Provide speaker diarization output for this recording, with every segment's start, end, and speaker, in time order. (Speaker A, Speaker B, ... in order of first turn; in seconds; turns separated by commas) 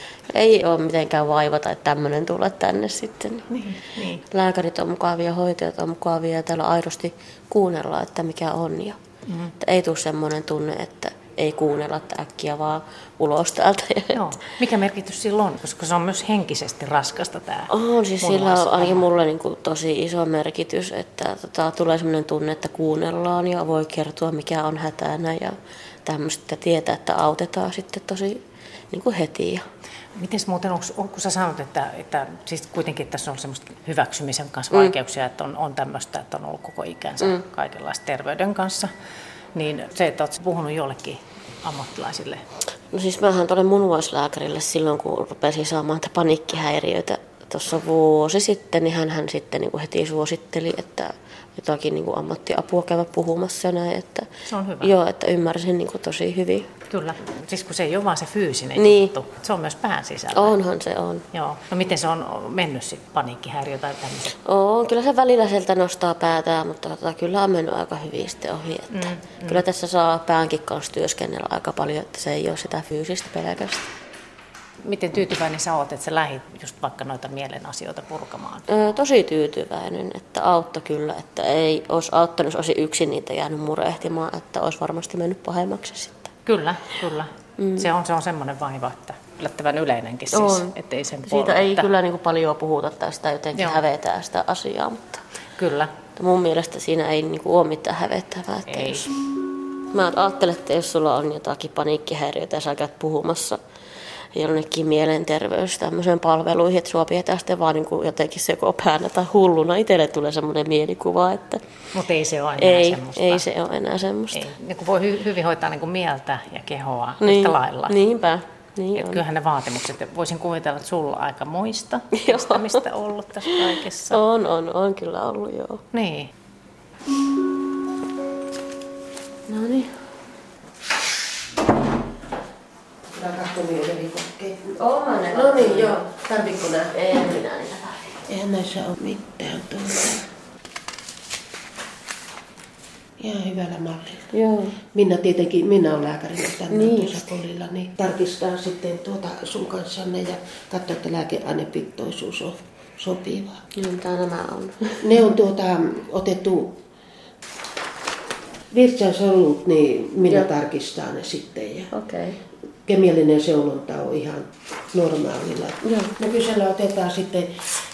Speaker A: 0.3-3.5, Speaker B: 3.5-4.2, Speaker A: 4.2-9.0, Speaker B: 9.3-9.5, Speaker A: 9.6-14.2, Speaker B: 14.1-19.1, Speaker A: 17.7-29.6, Speaker B: 30.1-38.9, Speaker B: 39.5-42.4, Speaker A: 42.9-54.3, Speaker B: 54.5-54.9, Speaker A: 54.8-56.7, Speaker B: 56.9-60.5, Speaker A: 58.8-59.1, Speaker A: 60.3-61.2, Speaker B: 61.3-64.3, Speaker A: 64.4-73.9, Speaker B: 68.9-69.6, Speaker B: 74.8-78.7, Speaker A: 78.7-86.3, Speaker B: 86.5-91.9, Speaker A: 90.3-90.8, Speaker A: 91.3-95.2, Speaker B: 95.6-95.9, Speaker A: 96.1-99.1, Speaker B: 98.7-99.1, Speaker A: 99.9-103.6, Speaker A: 104.3-111.6, Speaker B: 111.9-113.5, Speaker A: 112.6-114.4, Speaker B: 114.3-118.0, Speaker A: 117.2-119.2, Speaker B: 118.9-124.2, Speaker A: 122.1-122.8, Speaker A: 124.1-125.8, Speaker B: 125.9-126.3, Speaker A: 129.5-129.9, Speaker C: 133.1-134.8, Speaker A: 134.8-138.2, Speaker C: 135.3-136.9, Speaker C: 138.3-140.2, Speaker C: 143.2-144.3, Speaker A: 144.3-144.8, Speaker C: 144.8-153.6, Speaker A: 146.7-147.2, Speaker A: 153.7-155.0, Speaker C: 155.0-156.8, Speaker C: 158.7-161.9, Speaker A: 161.9-162.4, Speaker C: 162.8-167.6, Speaker A: 165.8-166.1